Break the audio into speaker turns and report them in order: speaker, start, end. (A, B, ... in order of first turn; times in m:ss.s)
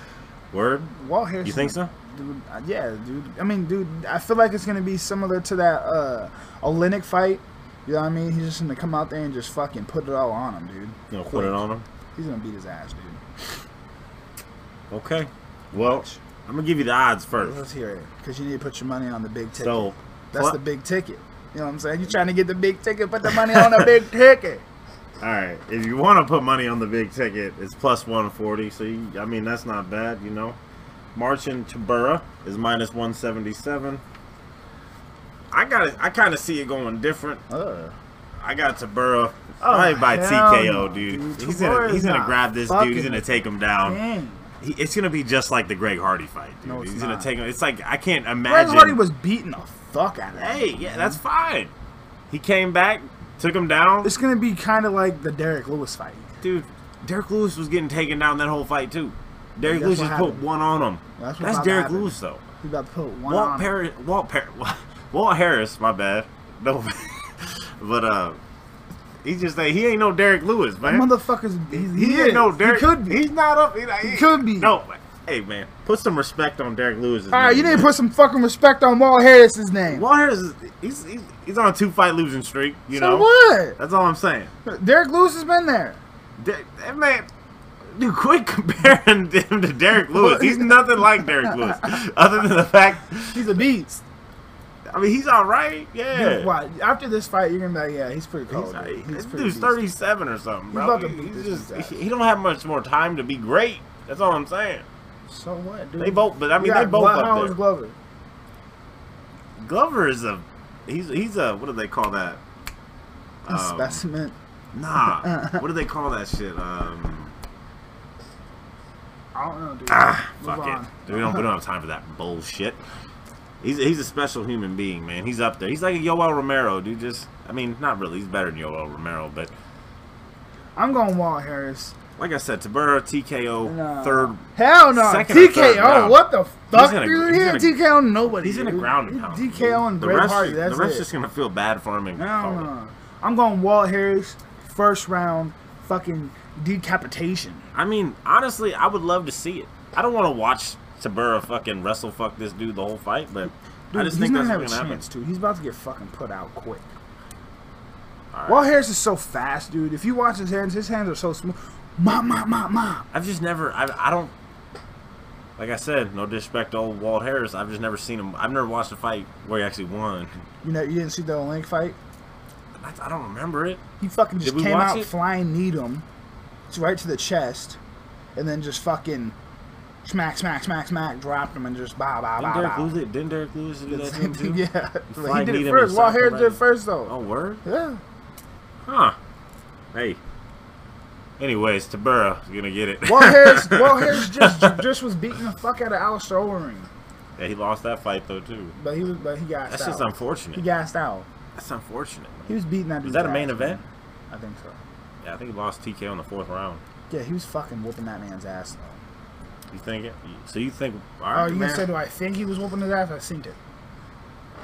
0:00.5-0:00.9 A
0:00.9-0:11.6 B
0:01.4-0:01.9 A
0:11.1-0:11.8 A
0:12.2-0:13.2 B
0:14.9-0:17.6 A
0:15.7-0:16.2 B
0:17.4-0:24.6 B
0:19.6-0:20.6 A
0:23.3-0:23.9 A
0:25.2-0:30.6 A
0:31.1-0:34.0 A
0:35.5-0:37.4 A
0:37.5-0:38.0 B
0:38.4-0:44.0 A
0:39.6-0:44.5 B
0:44.6-0:49.0 A
0:46.6-0:47.3 B
0:48.5-0:51.2 B
0:50.4-0:51.7 A
0:52.3-0:54.1 A
0:54.0-0:56.4 B
0:56.4-1:02.4 A
0:59.6-1:00.4 B
1:01.2-1:03.7 B
1:03.3-1:08.4 A
1:09.2-1:11.1 A
1:10.8-1:13.2 B
1:11.7-1:17.9 A
1:14.0-1:14.7 B
1:17.3-1:20.1 B
1:19.9-1:24.5 A
1:22.9-1:23.8 B
1:24.7-1:26.0 B
1:26.4-1:27.3 A
1:27.9-1:33.6 A
1:30.1-1:31.9 B
1:33.3-1:34.0 B
1:34.9-1:36.5 A
1:36.1-1:39.8 B
1:38.5-1:44.9 A
1:40.7-1:42.0 B
1:45.3-1:48.0 B
1:46.0-1:47.6 A
1:49.6-1:52.4 A
1:53.4-1:54.0 A
1:53.5-1:54.4 B
1:54.7-1:57.4 A
1:55.0-1:55.6 B
1:59.4-2:01.5 B
1:59.9-2:02.8 A
2:03.6-2:09.5 A
2:10.8-2:12.0 B
2:12.2-2:17.8 A
2:13.6-2:21.1 B
2:18.4-2:22.7 A
2:22.2-2:27.7 B
2:27.8-2:35.0 A
2:33.9-2:36.8 B
2:38.3-2:38.7 A
2:38.5-2:43.1 B
2:43.1-2:44.3 A
2:45.6-2:50.4 A
2:50.6-2:52.0 B
2:52.8-2:53.8 A
2:54.0-2:56.0 B
2:54.4-2:55.1 A
2:56.7-2:57.8 B
2:58.4-2:59.4 B
3:00.0-3:03.0 B
3:02.4-3:07.6 A
3:03.9-3:08.0 B
3:08.8-3:09.2 A
3:09.9-3:10.2 A
3:11.4-3:14.8 A
3:13.0-3:16.9 B
3:17.4-3:18.7 A
3:18.8-3:21.3 B
3:19.7-3:20.6 A
3:21.6-3:23.8 A
3:22.5-3:24.8 B
3:25.2-3:26.8 A
3:27.1-3:29.0 B
3:29.7-3:31.9 A
3:31.3-3:33.6 B